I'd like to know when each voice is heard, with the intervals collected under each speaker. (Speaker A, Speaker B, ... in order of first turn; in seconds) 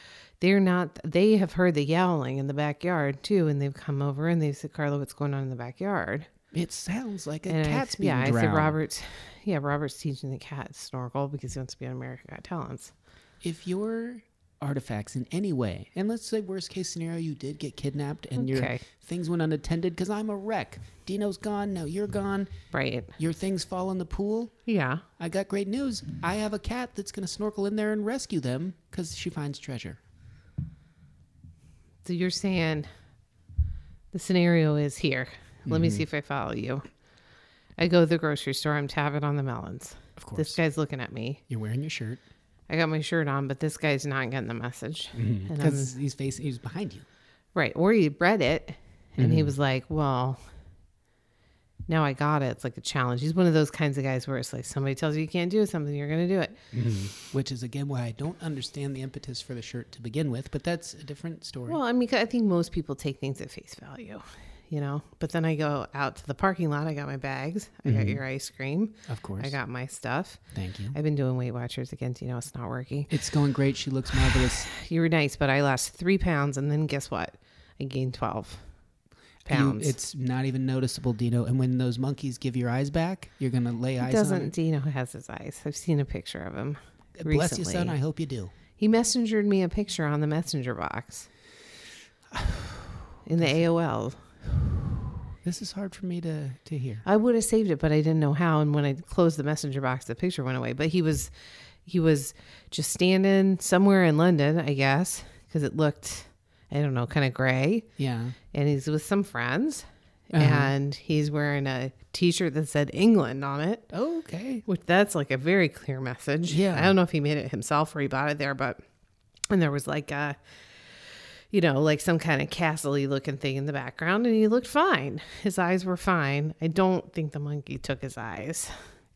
Speaker A: 0.4-6.3, 7.5-12.9, 18.4-18.8, 22.7-23.1, 24.7-25.0, 32.0-32.9, 34.1-36.9, 37.8-41.4, 42.7-45.9, 47.5-50.4, 51.9-56.6, 61.7-70.4, 70.9-73.1, 74.7-78.6, 79.5-80.0, 84.0-88.0, 88.8-91.3, 93.2-94.2, 97.0-101.3, 101.8-107.9, 108.5-113.9, 114.7-118.8, 119.5-120.4, 121.5-128.8
Speaker B: 6.5-8.8, 13.4-22.5, 23.2-24.5, 25.2-30.0, 35.7-36.0, 40.2-40.6, 41.5-42.2, 45.1-47.1, 49.2-49.5, 56.7-61.8, 67.8-68.2, 69.1-69.6, 70.5-71.0, 73.1-74.7, 79.5-84.5, 87.2-88.5, 92.3-93.7, 95.4-97.0, 108.0-108.4, 110.3-110.7, 113.9-114.7, 116.5-117.0